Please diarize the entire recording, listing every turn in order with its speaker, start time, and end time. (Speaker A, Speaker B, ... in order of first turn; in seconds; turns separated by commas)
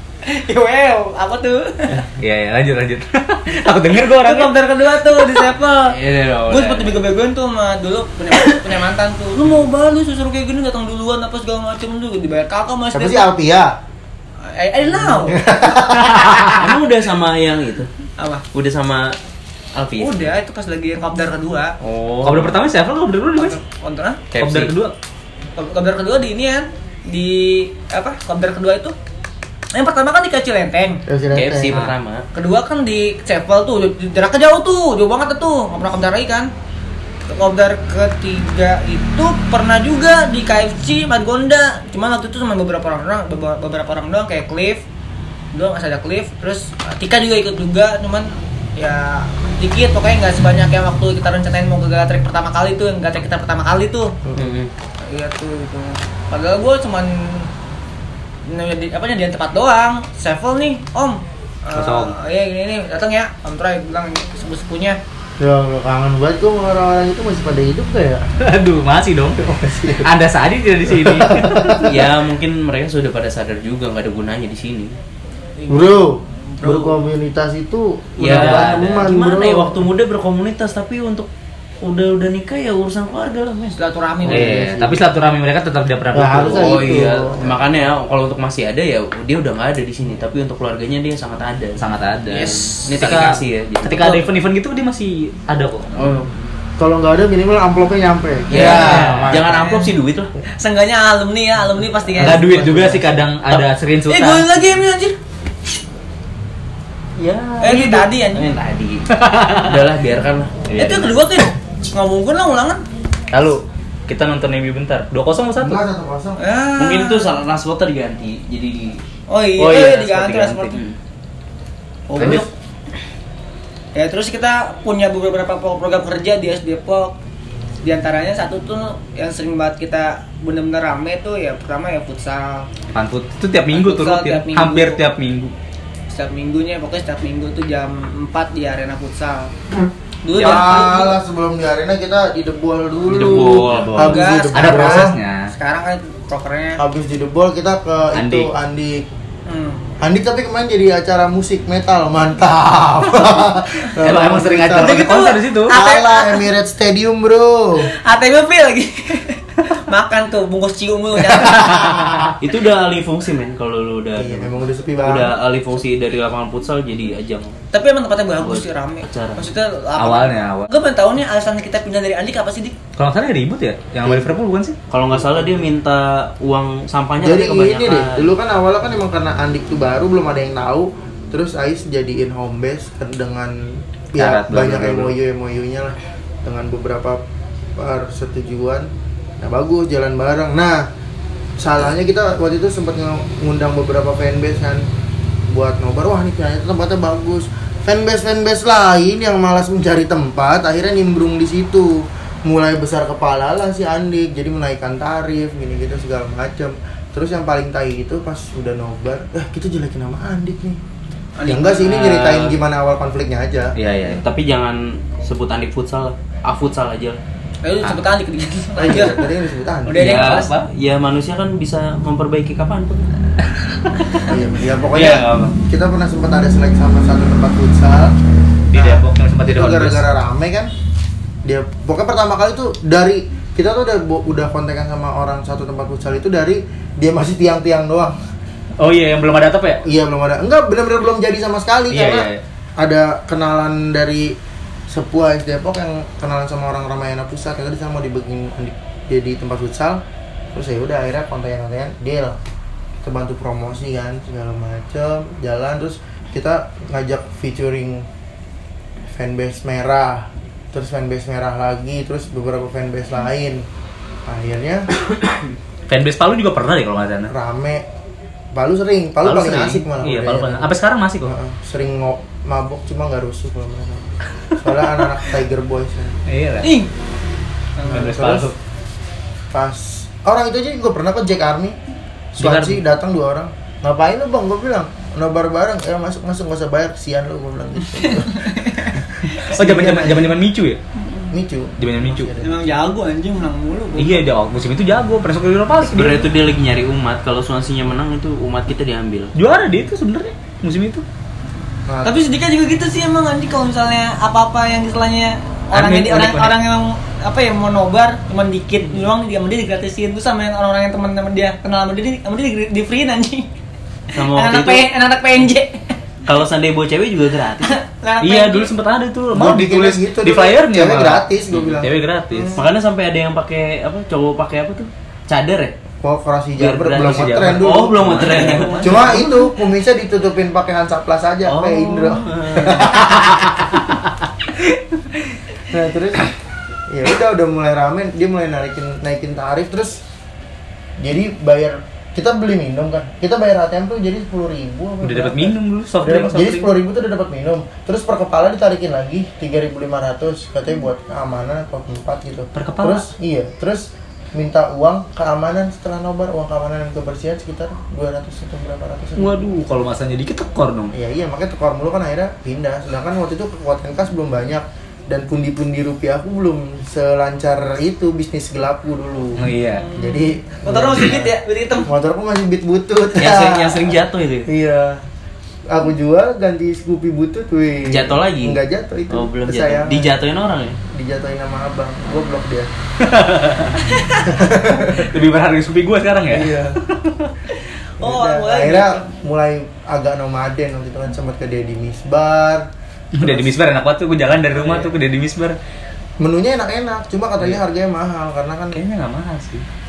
Speaker A: 0.2-2.0, Speaker B: 2.2-4.5, Speaker A: 4.2-13.3, Speaker C: 5.9-7.0, Speaker D: 12.9-13.7, Speaker A: 14.4-15.8, Speaker D: 15.2-16.4, Speaker B: 16.2-16.5, Speaker C: 16.5-17.9, Speaker A: 18.2-18.4, Speaker C: 18.5-19.1, Speaker C: 19.8-20.3, Speaker A: 20.0-21.7, Speaker C: 21.8-22.6, Speaker B: 22.2-23.6, Speaker A: 23.4-24.2, Speaker C: 24.3-24.8, Speaker B: 24.4-24.9, Speaker A: 25.6-28.9, Speaker A: 29.7-31.0, Speaker D: 31.1-31.8, Speaker C: 31.3-32.2, Speaker A: 32.3-36.5, Speaker A: 37.3-44.8, Speaker A: 45.5-54.1, Speaker D: 54.3-54.5, Speaker C: 54.4-54.7, Speaker A: 55.0-57.5, Speaker A: 58.5-65.0, Speaker B: 61.8-62.1, Speaker D: 65.4-68.2, Speaker B: 68.4-71.9, Speaker D: 69.5-70.1, Speaker D: 70.9-72.1, Speaker C: 71.8-74.9, Speaker A: 75.6-77.0, Speaker D: 75.7-79.9, Speaker C: 78.2-81.3, Speaker B: 78.2-79.0, Speaker C: 81.8-83.8, Speaker A: 83.8-84.6, Speaker D: 84.2-85.0, Speaker B: 84.3-87.0, Speaker D: 86.1-87.6, Speaker C: 86.5-94.3, Speaker B: 91.8-95.9, Speaker A: 92.3-93.0, Speaker D: 96.0-99.7, Speaker C: 96.0-96.3, Speaker C: 98.5-100.3, Speaker B: 98.5-99.4, Speaker A: 99.4-99.9, Speaker A: 100.6-102.8, Speaker B: 102.2-104.7, Speaker D: 102.6-103.0, Speaker A: 104.1-105.2, Speaker B: 107.2-108.0, Speaker A: 107.6-108.5, Speaker C: 107.6-111.0, Speaker B: 109.2-109.8, Speaker B: 110.8-111.1, Speaker A: 110.8-112.8, Speaker B: 113.3-115.8, Speaker D: 115.6-116.4, Speaker A: 116.4-117.3, Speaker C: 116.8-119.0, Speaker A: 119.3-120.8, Speaker B: 119.6-120.8, Speaker A: 122.1-122.5, Speaker C: 122.2-122.4, Speaker B: 122.2-122.5, Speaker A: 124.0-127.2, Speaker A: 127.8-132.7, Speaker B: 132.9-135.5, Speaker A: 133.7-135.0, Speaker A: 136.1-139.5, Speaker A: 140.2-141.2, Speaker D: 140.3-145.2, Speaker B: 140.4-140.9, Speaker C: 143.1-144.2, Speaker B: 143.7-145.5, Speaker A: 144.0-146.8, Speaker D: 146.8-149.1, Speaker B: 148.1-148.5, Speaker A: 149.5-149.8, Speaker D: 150.0-155.1, Speaker B: 154.0-155.8, Speaker A: 154.8-156.5, Speaker D: 155.7-157.9, Speaker A: 158.0-162.3, Speaker D: 161.4-162.3, Speaker C: 162.4-167.6, Speaker D: 164.2-165.3, Speaker A: 167.7-172.8, Speaker C: 168.4-169.4, Speaker B: 170.0-170.7, Speaker B: 173.0-174.8, Speaker D: 174.0-174.4, Speaker C: 174.9-178.3, Speaker D: 175.1-175.7, Speaker D: 177.2-187.2, Speaker B: 184.2-185.1, Speaker D: 187.8-188.9, Speaker D: 189.4-190.9, Speaker D: 191.6-194.8, Speaker D: 195.5-210.8, Speaker A: 211.4-212.0, Speaker D: 211.5-213.8, Speaker C: 211.8-212.6, Speaker B: 213.8-214.2, Speaker C: 214.1-217.2, Speaker A: 217.6-219.3, Speaker D: 218.8-220.2, Speaker A: 219.8-220.5, Speaker C: 220.0-223.1, Speaker B: 220.0-220.5, Speaker D: 224.3-228.2, Speaker B: 224.9-225.5, Speaker B: 228.7-230.0, Speaker D: 228.7-230.7, Speaker D: 231.4-238.2, Speaker B: 238.8-239.8, Speaker D: 239.8-244.4, Speaker B: 241.9-242.4, Speaker D: 244.9-250.0, Speaker D: 250.5-252.4, Speaker D: 253.0-258.1, Speaker D: 259.1-263.6, Speaker D: 264.3-264.9, Speaker B: 265.9-267.3, Speaker D: 267.3-267.8, Speaker D: 268.5-276.2, Speaker B: 269.2-271.3, Speaker B: 276.3-276.7, Speaker A: 276.6-276.9, Speaker A: 277.8-278.1, Speaker D: 277.9-278.5, Speaker B: 277.9-278.6, Speaker D: 279.5-281.8, Speaker D: 282.4-288.6, Speaker B: 282.4-282.8, Speaker A: 287.9-289.4, Speaker B: 289.4-290.8, Speaker D: 289.5-290.4, Speaker A: 291.0-291.3, Speaker D: 291.3-292.7, Speaker B: 291.8-292.3, Speaker A: 292.4-294.3, Speaker B: 294.0-296.3, Speaker C: 295.8-299.3, Speaker B: 299.4-301.0, Speaker D: 301.9-302.2, Speaker A: 302.0-313.5, Speaker B: 305.7-306.6, Speaker C: 314.2-314.9, Speaker A: 314.2-315.9, Speaker C: 316.3-317.8, Speaker A: 317.6-318.7, Speaker B: 318.2-322.6, Speaker D: 319.3-321.9, Speaker A: 322.3-322.6, Speaker C: 322.6-325.7, Speaker D: 326.0-333.3, Speaker C: 326.6-329.2, Speaker B: 327.0-328.8, Speaker A: 328.3-329.4, Speaker C: 331.5-333.0, Speaker D: 335.7-336.3, Speaker D: 336.9-340.0, Speaker D: 341.0-359.4, Speaker B: 345.0-346.7, Speaker B: 352.6-353.1, Speaker B: 359.2-360.9, Speaker D: 360.9-371.3, Speaker B: 369.4-369.9, Speaker A: 369.8-371.9, Speaker D: 371.9-373.9, Speaker C: 373.2-374.5, Speaker D: 374.5-375.0, Speaker D: 375.7-380.2, Speaker C: 377.9-378.6, Speaker C: 379.1-380.8, Speaker D: 380.9-382.7, Speaker B: 383.0-383.9, Speaker A: 383.9-384.3, Speaker D: 384.2-385.1, Speaker B: 384.8-387.3, Speaker D: 386.3-386.8, Speaker A: 388.0-389.1, Speaker D: 388.0-392.7, Speaker B: 393.2-395.6, Speaker D: 393.2-393.6, Speaker A: 394.5-394.9, Speaker D: 396.2-398.8, Speaker B: 398.7-399.6